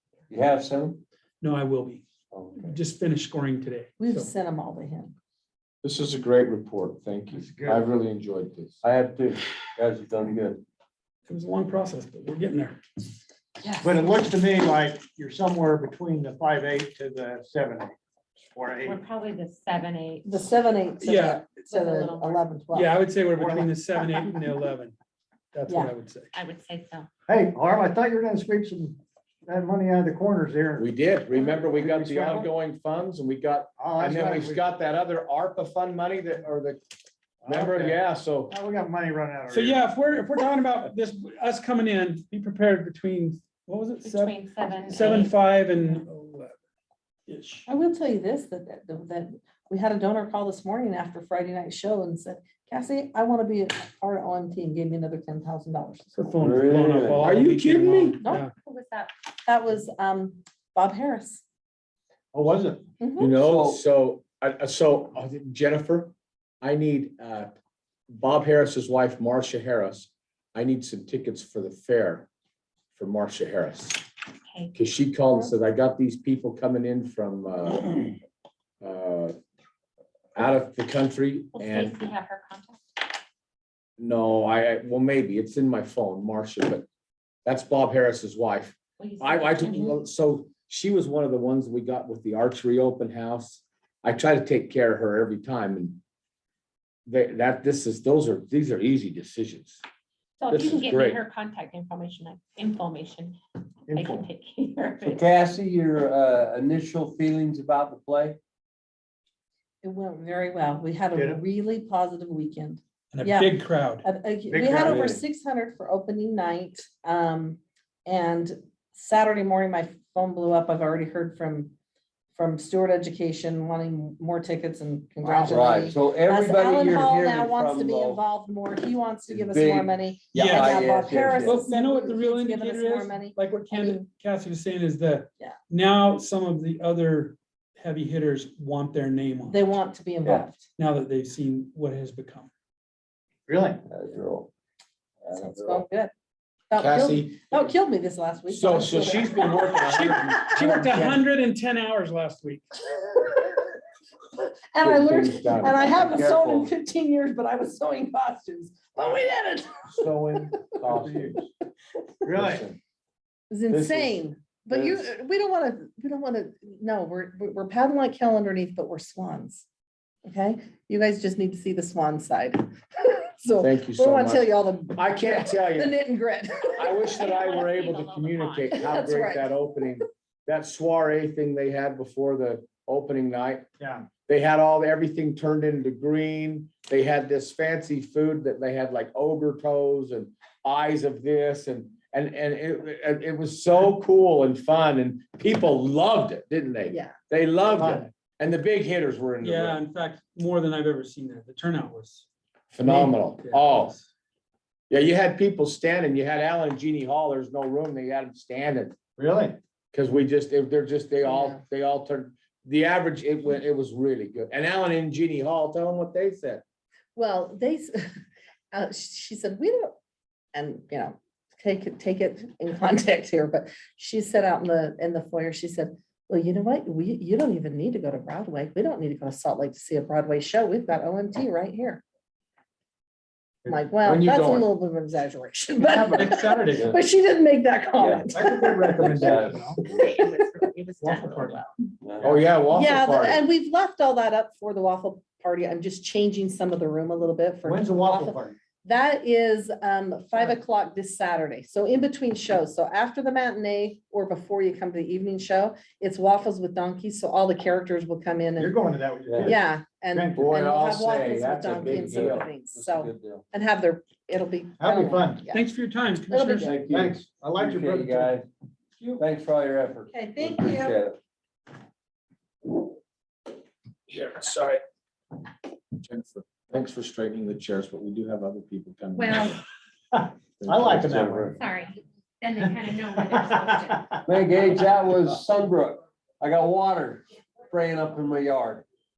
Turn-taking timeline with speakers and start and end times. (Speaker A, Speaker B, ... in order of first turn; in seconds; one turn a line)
Speaker A: 0.3-1.0
Speaker B: 1.4-4.3
Speaker A: 2.3-2.8
Speaker C: 4.0-5.1
Speaker D: 5.8-8.8
Speaker E: 7.3-7.9
Speaker A: 8.8-10.6
Speaker B: 11.3-12.8
Speaker C: 13.6-14.1
Speaker E: 13.8-19.0
Speaker F: 18.8-20.3
Speaker C: 20.2-22.9
Speaker B: 21.0-21.5
Speaker F: 21.7-22.5
Speaker B: 22.7-24.9
Speaker E: 23.3-23.7
Speaker B: 25.5-26.3
Speaker C: 25.7-25.9
Speaker F: 26.3-27.1
Speaker E: 27.3-30.9
Speaker D: 30.8-36.8
Speaker E: 31.6-32.5
Speaker E: 33.8-34.6
Speaker E: 37.4-39.9
Speaker D: 37.5-38.5
Speaker B: 39.5-46.5
Speaker F: 44.0-45.4
Speaker B: 47.3-47.6
Speaker C: 47.7-56.3
Speaker B: 56.2-58.5
Speaker A: 56.4-58.1
Speaker C: 58.2-58.5
Speaker F: 58.6-59.1
Speaker C: 59.5-61.4
Speaker E: 62.3-62.9
Speaker C: 63.0-63.3
Speaker D: 63.2-67.6
Speaker A: 63.2-63.8
Speaker D: 68.1-72.3
Speaker D: 73.0-74.0
Speaker F: 74.5-74.7
Speaker D: 74.8-78.1
Speaker D: 78.8-79.3
Speaker D: 80.4-82.0
Speaker F: 81.5-82.8
Speaker D: 84.0-86.9
Speaker D: 87.5-96.0
Speaker F: 89.0-90.0
Speaker D: 97.1-99.8
Speaker F: 100.4-105.3
Speaker D: 100.5-101.2
Speaker E: 103.9-104.3
Speaker A: 105.0-108.4
Speaker C: 109.8-121.7
Speaker E: 111.2-111.4
Speaker B: 113.1-114.1
Speaker E: 114.5-115.1
Speaker A: 114.8-115.2
Speaker C: 122.3-134.1
Speaker D: 125.2-125.7
Speaker A: 125.5-128.2
Speaker A: 129.3-131.6
Speaker B: 130.3-130.8
Speaker B: 131.4-139.6
Speaker C: 139.5-140.7
Speaker B: 140.8-142.5
Speaker E: 143.5-143.8
Speaker A: 143.9-144.5
Speaker A: 145.2-145.8
Speaker C: 145.3-146.1
Speaker C: 146.7-150.8
Speaker D: 146.8-147.7
Speaker D: 148.5-151.0
Speaker B: 149.6-152.6
Speaker C: 152.9-153.7
Speaker C: 154.7-160.6
Speaker D: 154.8-156.0
Speaker A: 155.9-156.7
Speaker D: 159.9-161.4
Speaker E: 160.9-161.3
Speaker E: 162.2-162.7
Speaker D: 162.3-162.8
Speaker C: 163.5-169.7
Speaker D: 163.7-165.1
Speaker C: 170.2-177.2
Speaker D: 173.6-176.0
Speaker D: 176.8-183.7
Speaker F: 177.2-178.8
Speaker C: 178.7-179.5
Speaker E: 183.8-184.1
Speaker D: 184.3-199.8
Speaker C: 196.9-197.2
Speaker E: 197.8-198.1
Speaker B: 199.4-202.3
Speaker D: 202.7-203.9
Speaker B: 202.8-204.0
Speaker D: 204.9-209.0
Speaker E: 209.2-209.6
Speaker D: 209.9-216.6
Speaker C: 211.2-211.6
Speaker C: 217.2-218.0
Speaker C: 218.7-219.9
Speaker C: 220.5-232.0
Speaker C: 233.7-239.5
Speaker D: 234.0-234.7
Speaker B: 236.1-236.9
Speaker A: 238.0-238.3
Speaker E: 238.3-239.8
Speaker A: 239.0-240.1
Speaker B: 239.4-239.8
Speaker F: 239.8-241.7
Speaker B: 241.0-241.6
Speaker A: 242.0-242.4
Speaker D: 242.2-243.4
Speaker C: 242.7-258.8
Speaker E: 247.6-248.6
Speaker E: 258.6-259.6
Speaker A: 259.3-259.5
Speaker C: 259.4-265.6
Speaker E: 260.1-260.5
Speaker D: 260.4-262.5
Speaker A: 261.8-263.4
Speaker E: 264.8-265.5
Speaker B: 265.5-266.8
Speaker C: 266.3-266.7
Speaker A: 266.6-268.4
Speaker E: 266.9-268.4
Speaker B: 269.0-269.2
Speaker A: 269.2-271.2
Speaker C: 270.1-271.0
Speaker D: 274.1-274.8
Speaker D: 276.0-279.6
Speaker F: 279.1-279.6
Speaker E: 280.1-281.6
Speaker D: 280.6-281.4
Speaker A: 281.0-281.6
Speaker F: 281.6-284.2
Speaker E: 283.3-284.2
Speaker A: 284.3-288.8